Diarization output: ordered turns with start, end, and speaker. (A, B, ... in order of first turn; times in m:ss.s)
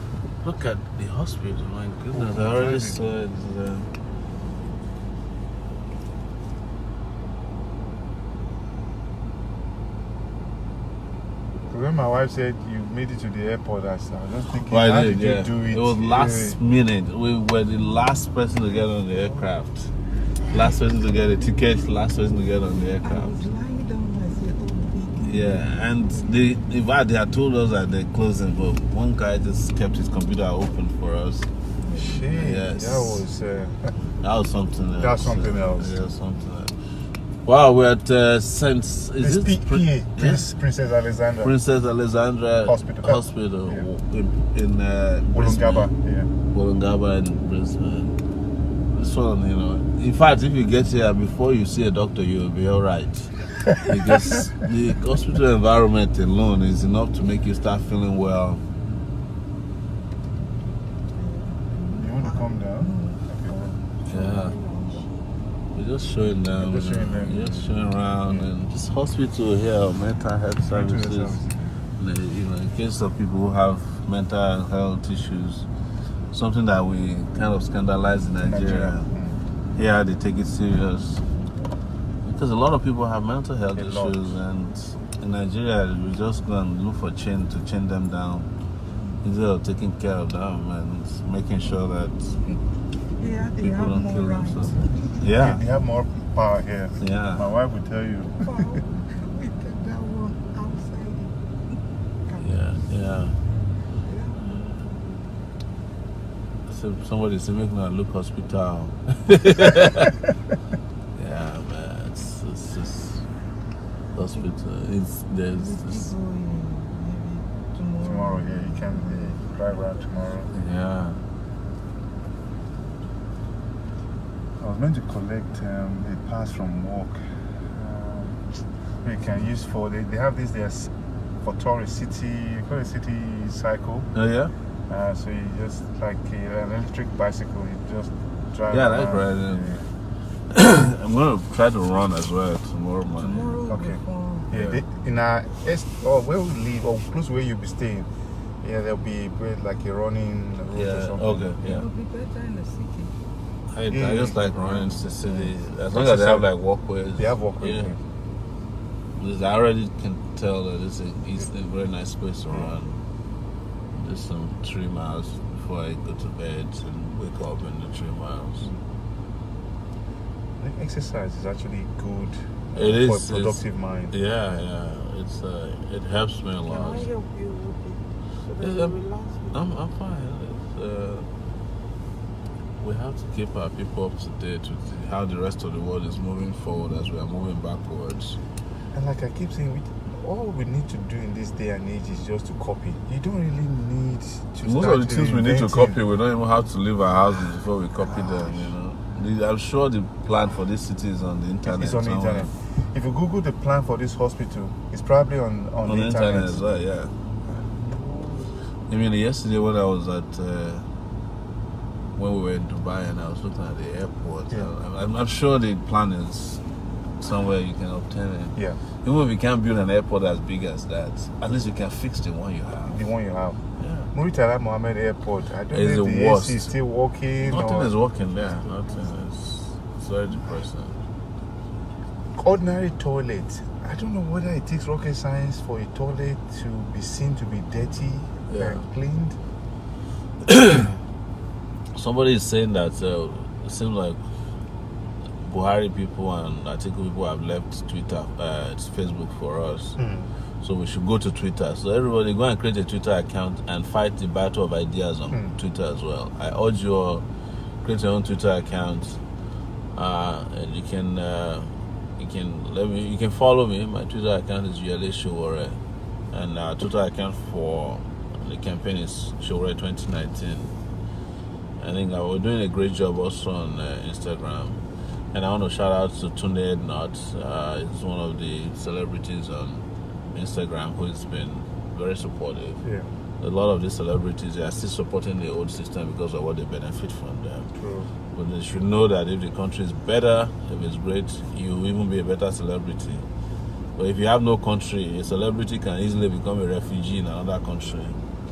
0:00.4-0:03.9 A
0:02.1-0:03.0 B
0:11.7-0:16.6 B
0:14.6-0:19.9 A
0:20.4-0:23.4 A
0:22.9-0:25.7 C
0:25.2-0:31.5 A
0:31.9-0:32.3 C
0:32.0-0:33.9 B
0:32.3-0:33.2 A
0:34.2-0:36.7 A
0:35.0-0:35.9 B
0:37.4-0:40.4 A
0:39.2-0:41.5 B
0:41.4-0:45.9 A
0:42.6-0:43.9 B
0:45.3-0:46.3 B
0:46.5-0:48.2 A
0:48.9-0:58.6 A
1:01.2-1:05.1 C
1:02.0-1:03.6 B
1:04.1-1:04.5 A
1:05.7-1:11.4 A
1:06.5-1:08.4 B
1:10.7-1:11.5 B
1:12.0-1:15.7 A
1:16.3-1:19.1 A
1:18.4-1:19.4 B
1:19.7-1:21.2 A
1:22.2-1:28.5 A
1:23.7-1:24.3 B
1:29.2-1:32.4 A
1:33.2-1:35.1 C
1:33.4-1:35.6 A
1:35.3-1:38.8 B
1:37.0-1:37.4 A
1:38.4-1:41.4 C
1:42.4-1:43.4 A
1:44.0-1:45.3 C
1:46.7-1:50.1 A
1:51.1-1:53.2 A
1:54.1-1:56.1 A
1:55.5-1:59.4 C
1:58.0-2:00.5 B
2:00.5-2:01.2 A
2:04.6-2:07.2 B
2:07.7-2:08.4 B
2:09.0-2:10.9 B
2:11.4-2:14.1 B
2:14.1-2:14.5 A
2:14.9-2:19.8 B
2:18.7-2:19.8 A
2:20.5-2:23.6 A
2:23.2-2:24.5 C
2:23.7-2:28.1 B
2:24.5-2:24.8 A
2:28.6-2:31.6 B
2:30.7-2:31.9 A
2:31.6-2:33.1 C
2:33.7-2:37.9 A
2:33.9-2:35.0 B
2:35.9-2:36.5 B
2:37.2-2:38.0 B
2:39.2-2:43.0 A
2:43.9-2:48.7 A
2:50.6-2:54.1 B
2:52.7-2:57.1 A
2:56.7-2:59.6 C
2:58.6-2:59.0 A
2:59.5-3:01.3 A
3:02.8-3:08.4 A
3:08.9-3:16.0 B
3:14.6-3:22.5 A
3:21.6-3:26.7 B
3:25.8-3:27.1 A
3:27.4-3:28.5 B
3:28.9-3:30.8 A
3:32.2-3:36.6 A
3:37.2-3:43.0 A
3:42.8-3:43.6 B
3:43.8-3:44.1 A
3:44.1-3:47.9 B
3:45.7-3:46.7 A
3:47.4-3:51.0 A
3:52.4-3:59.4 B
3:58.5-3:58.8 A
4:00.4-4:00.9 A
4:01.9-4:04.2 A
4:05.4-4:10.0 A
4:10.0-4:10.3 B
4:10.6-4:17.2 A
4:17.8-4:19.2 A
4:19.9-4:25.8 A
4:26.3-4:30.7 A
4:31.8-4:34.8 A
4:35.3-4:42.8 A
4:43.4-4:47.7 A
4:47.7-4:48.1 B
4:48.3-4:53.2 A
4:54.0-4:58.2 A